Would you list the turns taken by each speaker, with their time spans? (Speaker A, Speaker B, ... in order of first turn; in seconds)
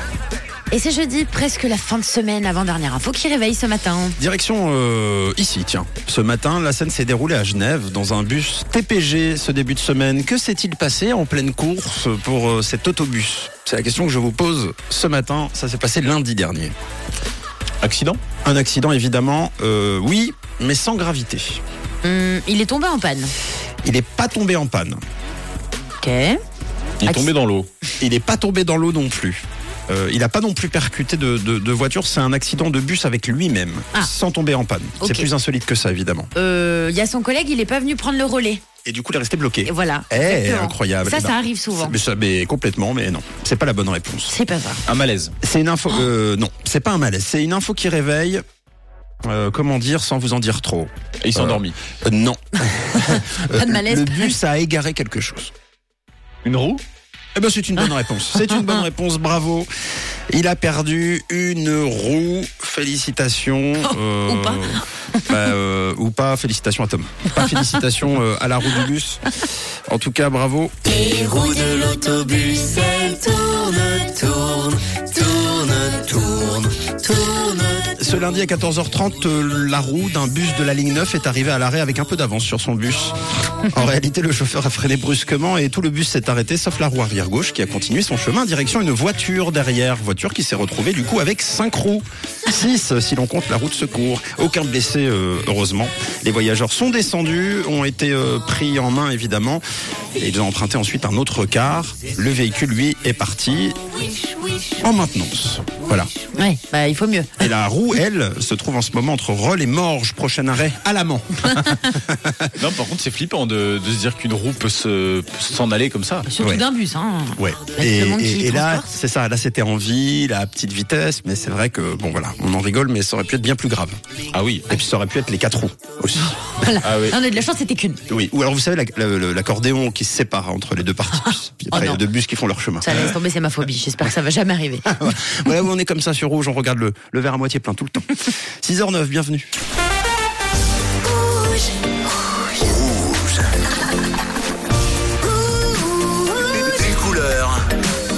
Speaker A: 0.7-4.2, 22.0-23.3, 26.0-26.4, 35.0-35.3, 36.4-38.6, 39.6-42.0, 44.3-44.9, 53.0-54.3, 63.8-64.8, 106.3-107.5, 116.3-118.9, 126.3-128.0, 131.7-132.0, 132.8-135.0
Speaker B: 4.2-16.7, 18.4-21.6, 23.8-25.0, 28.0-36.3, 38.9-44.3, 45.4-48.4, 49.2-55.5, 57.4-59.7, 60.3-70.8, 78.0-99.6, 100.2-103.8, 104.7-106.1, 107.4-112.5, 117.4-124.0, 124.7-126.4, 128.1-133.2, 134.8-139.5
Speaker C: 17.8-18.2, 27.0-27.7, 44.9-45.3, 51.2-51.8, 56.4-56.8, 112.6-116.3, 124.3-124.7, 126.8-127.2
Speaker D: 70.9-77.9, 142.5-143.4, 146.5-147.7